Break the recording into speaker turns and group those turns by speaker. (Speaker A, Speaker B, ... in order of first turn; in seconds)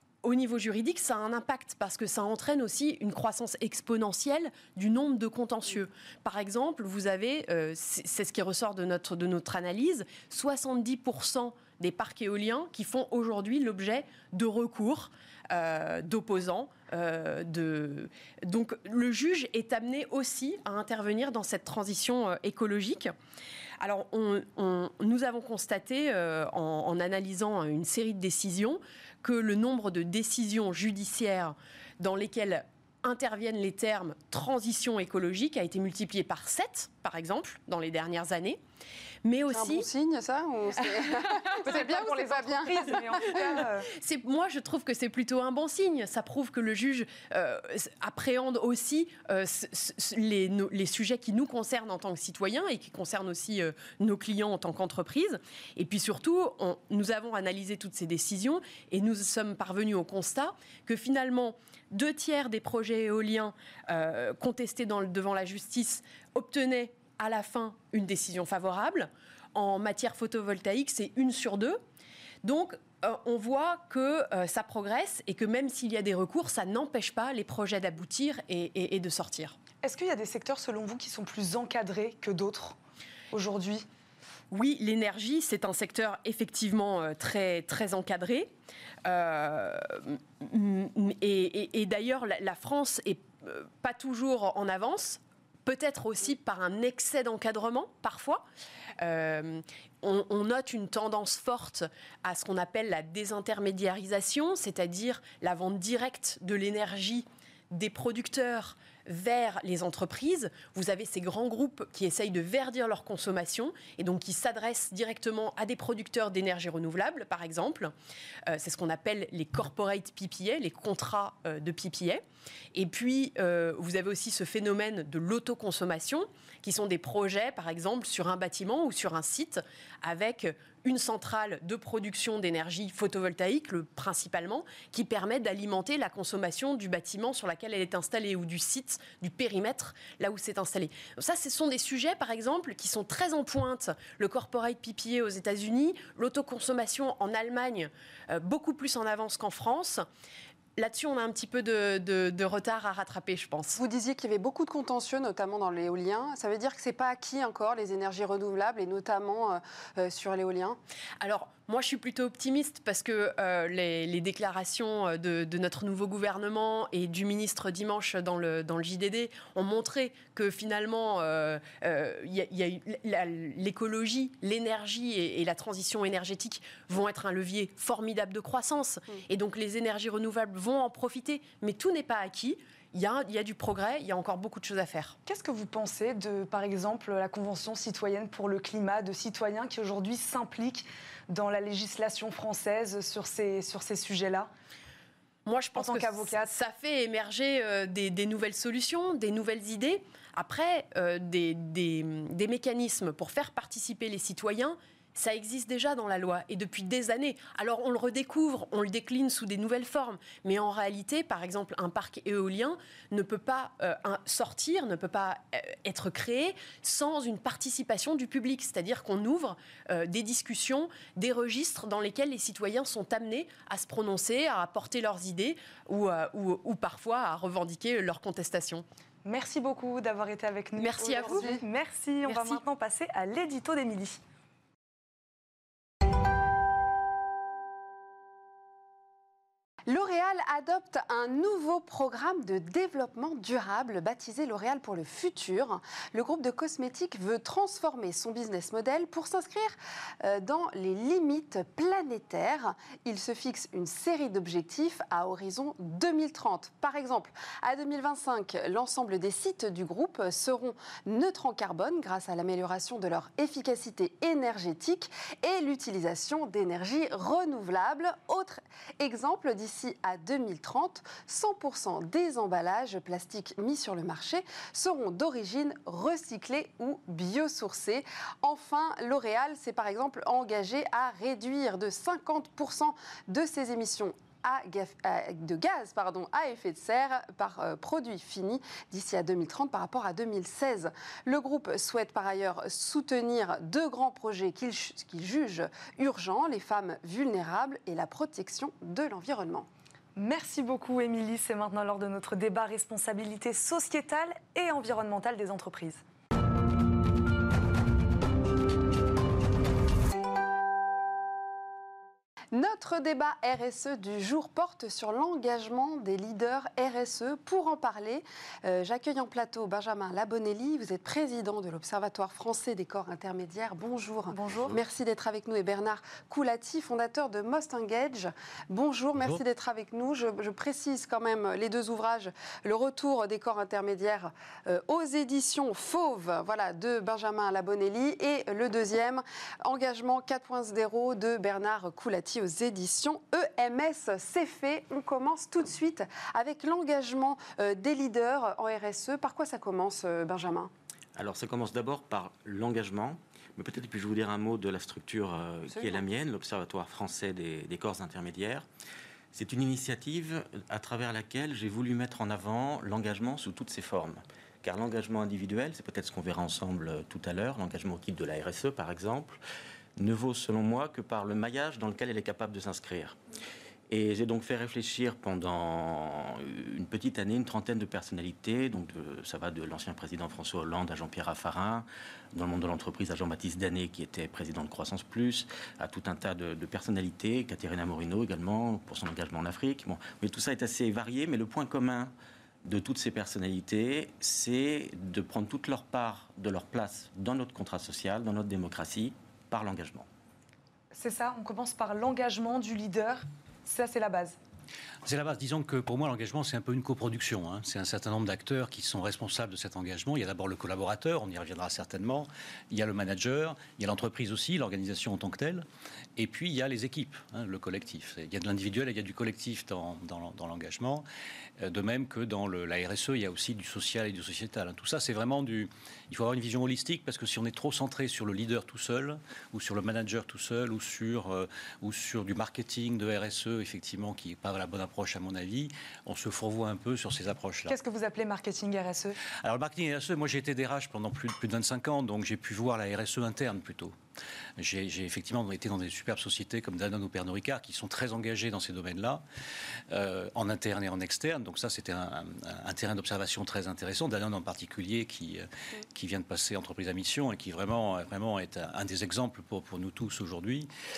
Speaker A: 0.2-23.1, 23.8-38.6, 39.2-39.9, 41.1-41.3, 43.2-71.8, 72.4-79.6, 84.5-88.5, 89.0-98.4, 99.0-117.9, 118.5-122.2, 122.7-150.1, 150.8-153.8, 161.2-185.2, 195.4-228.8, 230.8-231.6, 232.2-232.6
Speaker B: 39.5-43.6, 153.8-160.8, 231.1-231.6, 239.9-299.7, 312.5-350.7, 355.7-356.0
Speaker C: 41.6-43.9, 79.8-82.7, 83.3-83.8, 185.2-194.5, 195.7-196.5, 229.2-234.2, 300.1-306.0, 324.3-324.7, 400.9-404.4, 437.7-439.2
Speaker D: 351.1-358.6, 359.3-369.4, 370.0-373.2, 373.9-392.1, 392.6-400.1
Speaker E: 405.0-415.6, 416.2-421.0, 421.6-437.8, 439.4-443.9, 444.6-449.2, 449.9-460.7